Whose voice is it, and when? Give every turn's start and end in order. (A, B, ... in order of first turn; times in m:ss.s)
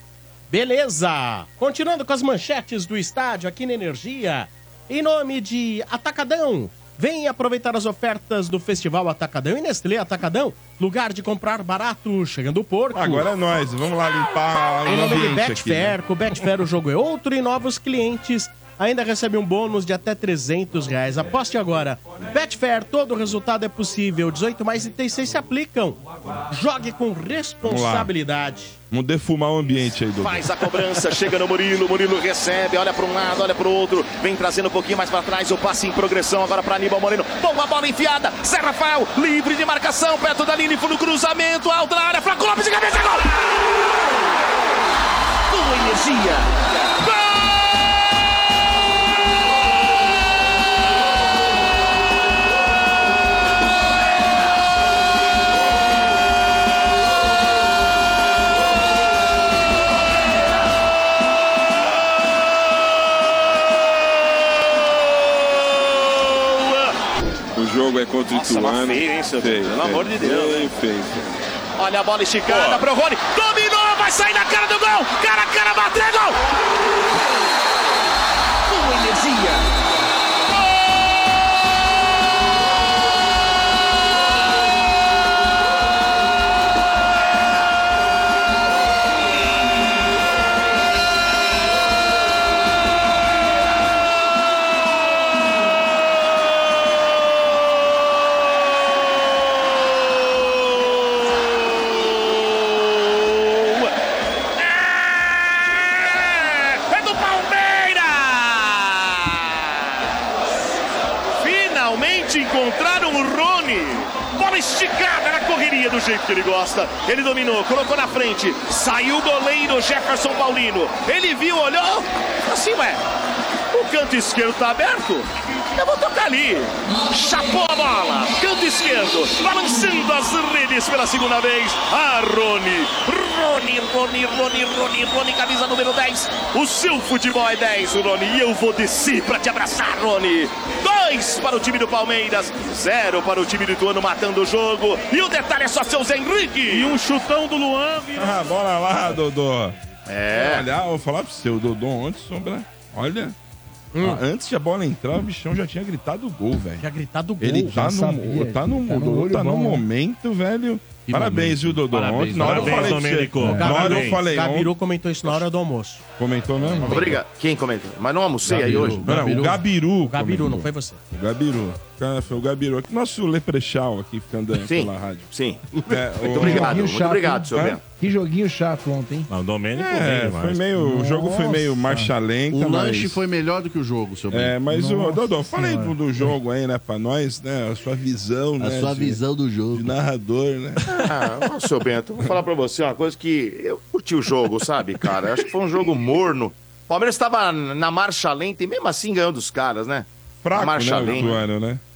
0:00.5-0:13.3 A
0:12.9-0:16.0 B
0:14.8-0:28.8 A
0:27.6-0:28.1 B
0:28.9-0:30.5 B
0:30.2-0:43.4 C
0:45.5-0:47.4 C
1:05.7-1:06.9 C
1:07.5-1:11.2 B
1:08.3-1:10.7 C
1:11.8-1:16.4 C
1:18.7-1:19.7 C
1:41.7-1:43.9 C
1:44.6-1:49.9 C
1:51.4-2:03.0 C
2:03.7-2:27.2 C
2:28.1-2:29.7 B
2:30.0-2:30.7 C
2:30.3-2:33.3 B
2:33.9-2:34.2 A
2:34.0-2:36.8 B
2:36.8-2:37.7 A
2:37.4-2:44.7 B
2:37.7-2:39.8 D
2:41.0-2:43.0 E
2:42.4-2:44.2 F
2:42.5-2:46.0 A
2:43.4-2:43.7 D
2:46.2-2:47.2 B
2:46.8-2:49.1 C
2:48.4-2:49.6 E
2:48.6-2:56.9 B
2:50.0-2:51.0 A
2:54.5-2:57.8 C
2:56.3-2:59.3 D
2:59.3-3:00.7 F
2:59.8-3:03.2 B
3:00.7-3:02.1 D
3:02.5-3:04.6 E
3:04.3-3:11.1 B
3:04.7-3:06.3 D
3:08.6-3:10.0 E
3:10.9-3:21.4 C
3:20.4-3:21.8 B